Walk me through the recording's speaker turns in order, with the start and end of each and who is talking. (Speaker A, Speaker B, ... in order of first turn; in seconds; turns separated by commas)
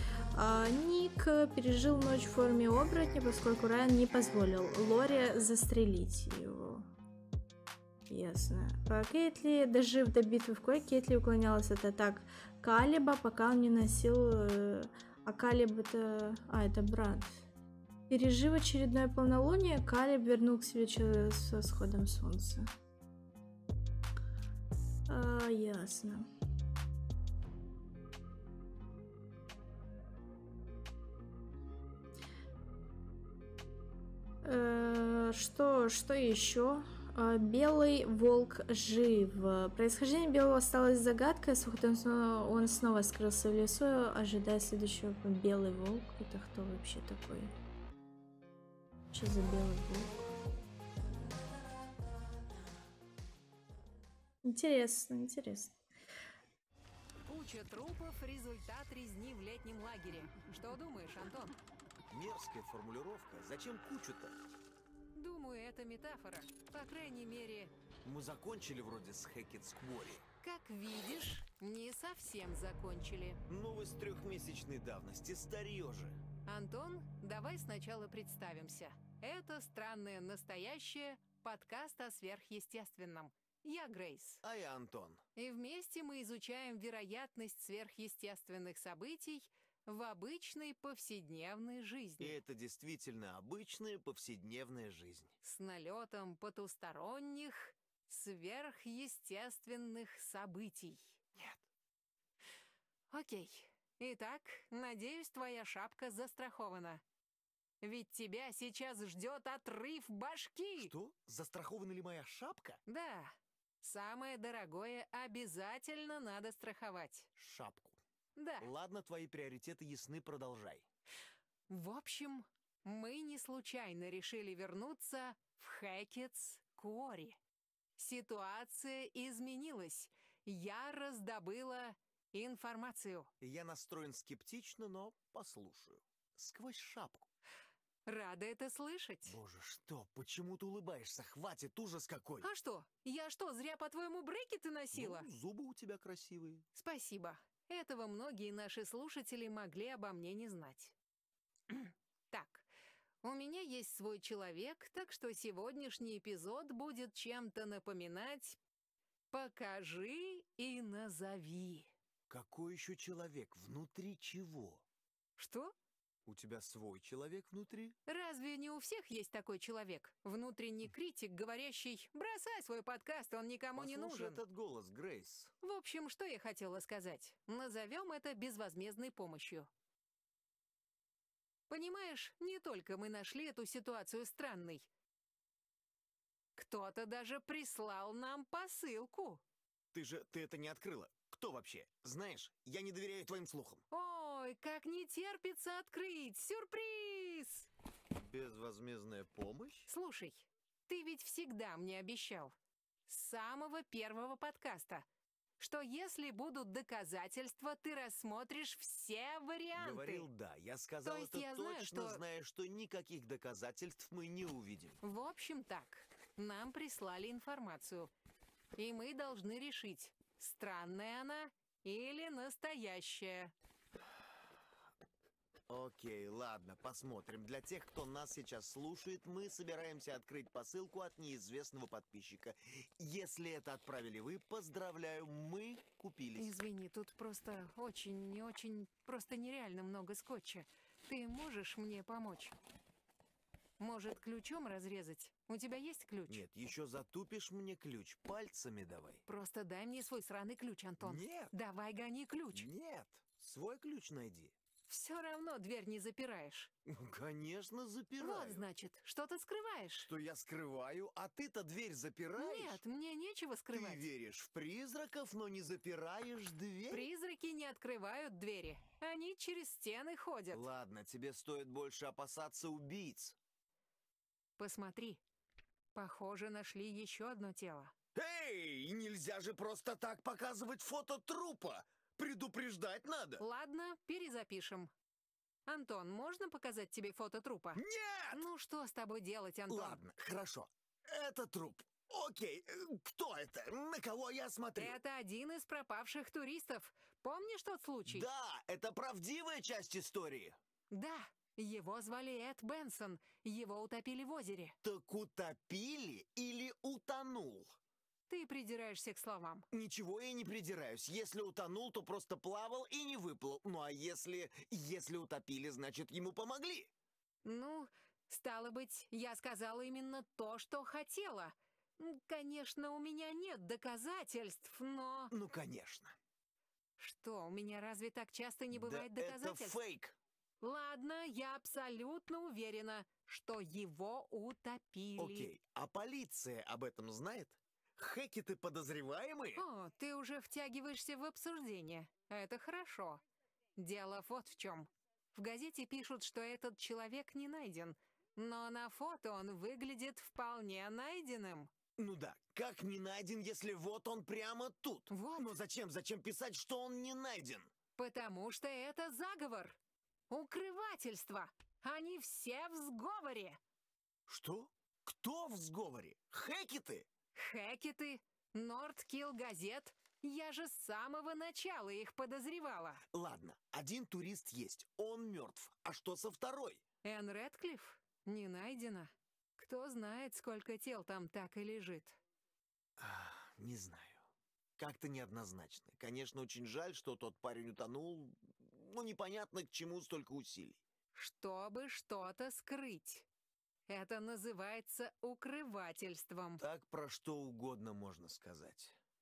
Speaker A: 0.3-6.8, Speaker A: 8.1-17.4, Speaker A: 18.1-22.6, Speaker A: 25.1-26.2, Speaker A: 34.4-47.5, Speaker A: 49.1-50.2, Speaker A: 54.4-55.8, Speaker B: 57.2-61.5, Speaker C: 62.1-64.3, Speaker B: 65.1-67.7, Speaker C: 68.0-70.2, Speaker B: 70.4-73.4, Speaker C: 73.5-76.2, Speaker B: 76.5-84.4, Speaker C: 84.4-85.2, Speaker B: 85.3-92.4, Speaker C: 92.2-95.3, Speaker B: 95.4-101.2, Speaker C: 101.3-101.6, Speaker B: 103.1-107.0, Speaker B: 107.8-110.9, Speaker C: 110.8-112.8, Speaker B: 112.9-117.3, Speaker C: 117.3-118.0, Speaker B: 118.4-118.7, Speaker C: 118.6-120.8, Speaker B: 121.7-127.3, Speaker B: 128.0-133.3, Speaker C: 133.4-137.3, Speaker B: 138.1-139.4, Speaker C: 139.2-142.5, Speaker B: 142.4-145.3, Speaker C: 144.9-146.7, Speaker B: 146.7-150.9, Speaker B: 151.7-152.7, Speaker B: 153.2-158.6, Speaker B: 159.3-161.9, Speaker C: 162.3-164.8, Speaker B: 165.4-165.7, Speaker C: 166.2-167.9, Speaker B: 168.1-174.4, Speaker C: 173.8-175.5, Speaker B: 175.6-179.7, Speaker B: 181.7-184.9, Speaker B: 186.6-189.4, Speaker C: 189.9-193.8, Speaker B: 193.9-197.7, Speaker C: 198.2-199.9, Speaker B: 199.9-202.5, Speaker B: 203.1-205.0, Speaker B: 205.6-210.3, Speaker C: 209.7-215.0, Speaker B: 211.0-212.2, Speaker B: 215.0-218.1, Speaker B: 218.8-223.5, Speaker C: 225.7-236.6, Speaker B: 236.4-242.5, Speaker B: 243.8-246.4, Speaker C: 246.3-249.2, Speaker B: 249.3-252.7, Speaker C: 251.0-251.5, Speaker C: 252.5-254.6, Speaker B: 254.9-256.7, Speaker C: 256.9-258.6, Speaker B: 258.2-260.1, Speaker C: 260.1-262.8, Speaker B: 262.4-264.0, Speaker C: 263.7-267.1, Speaker B: 266.9-270.6, Speaker C: 270.5-273.4, Speaker B: 274.6-275.2, Speaker B: 275.9-277.9, Speaker C: 278.1-283.4, Speaker B: 283.4-284.9, Speaker B: 285.7-287.8, Speaker C: 287.7-288.5, Speaker B: 288.3-290.0, Speaker C: 289.7-295.0, Speaker B: 294.8-298.3, Speaker C: 298.0-300.6, Speaker B: 300.9-304.8, Speaker C: 304.8-307.8, Speaker B: 308.3-309.7, Speaker C: 309.7-316.9, Speaker B: 317.4-325.3, Speaker C: 325.3-326.1, Speaker B: 327.0-329.8, Speaker C: 328.7-330.2, Speaker B: 330.6-335.5, Speaker C: 335.2-339.6, Speaker B: 339.6-343.2, Speaker B: 343.8-351.7, Speaker C: 352.0-357.7, Speaker B: 355.1-355.5, Speaker B: 358.0-359.8, Speaker B: 360.3-363.6, Speaker C: 364.3-367.1, Speaker B: 367.4-373.0, Speaker C: 373.1-376.8, Speaker B: 377.0-382.2, Speaker C: 383.0-384.2, Speaker C: 384.8-390.8, Speaker B: 391.1-393.2, Speaker B: 393.9-396.6, Speaker C: 396.6-399.0